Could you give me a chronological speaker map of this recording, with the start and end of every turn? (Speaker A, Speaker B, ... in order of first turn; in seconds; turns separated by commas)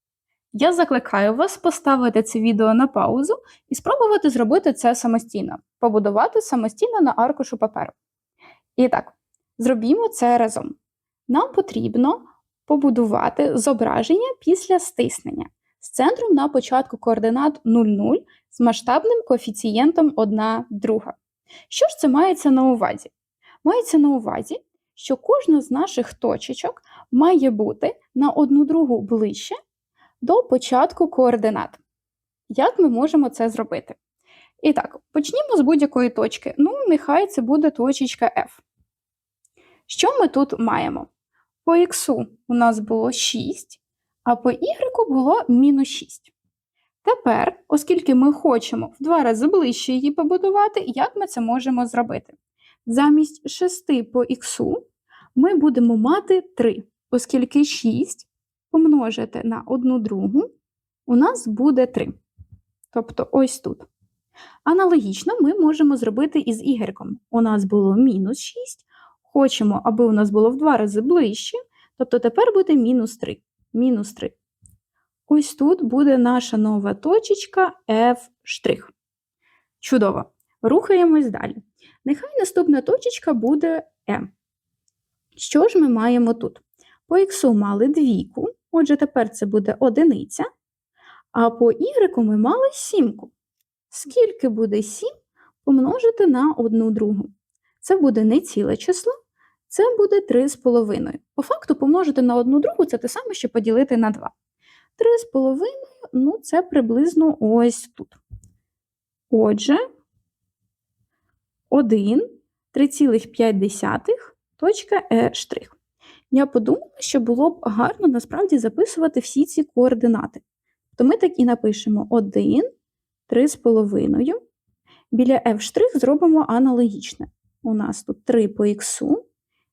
Speaker A: 0.5-8.0, Speaker A: 8.8-10.8, Speaker A: 11.3-21.2, Speaker A: 21.7-23.1, Speaker A: 23.6-29.6, Speaker A: 30.2-31.8, Speaker A: 32.5-34.0, Speaker A: 34.6-38.6, Speaker A: 39.9-41.1, Speaker A: 41.6-46.3, Speaker A: 47.0-54.8, Speaker A: 55.4-60.5, Speaker A: 61.1-62.2, Speaker A: 62.9-63.9, Speaker A: 64.7-74.4, Speaker A: 75.3-78.9, Speaker A: 79.8-84.3, Speaker A: 85.4-90.5, Speaker A: 91.3-93.3, Speaker A: 93.9-95.1, Speaker A: 95.6-99.1, Speaker A: 99.7-104.3, Speaker A: 105.0-108.2, Speaker A: 109.3-109.8, Speaker A: 111.7-115.8, Speaker A: 116.3-120.4, Speaker A: 120.9-122.7, Speaker A: 123.3-124.4, Speaker A: 125.1-129.2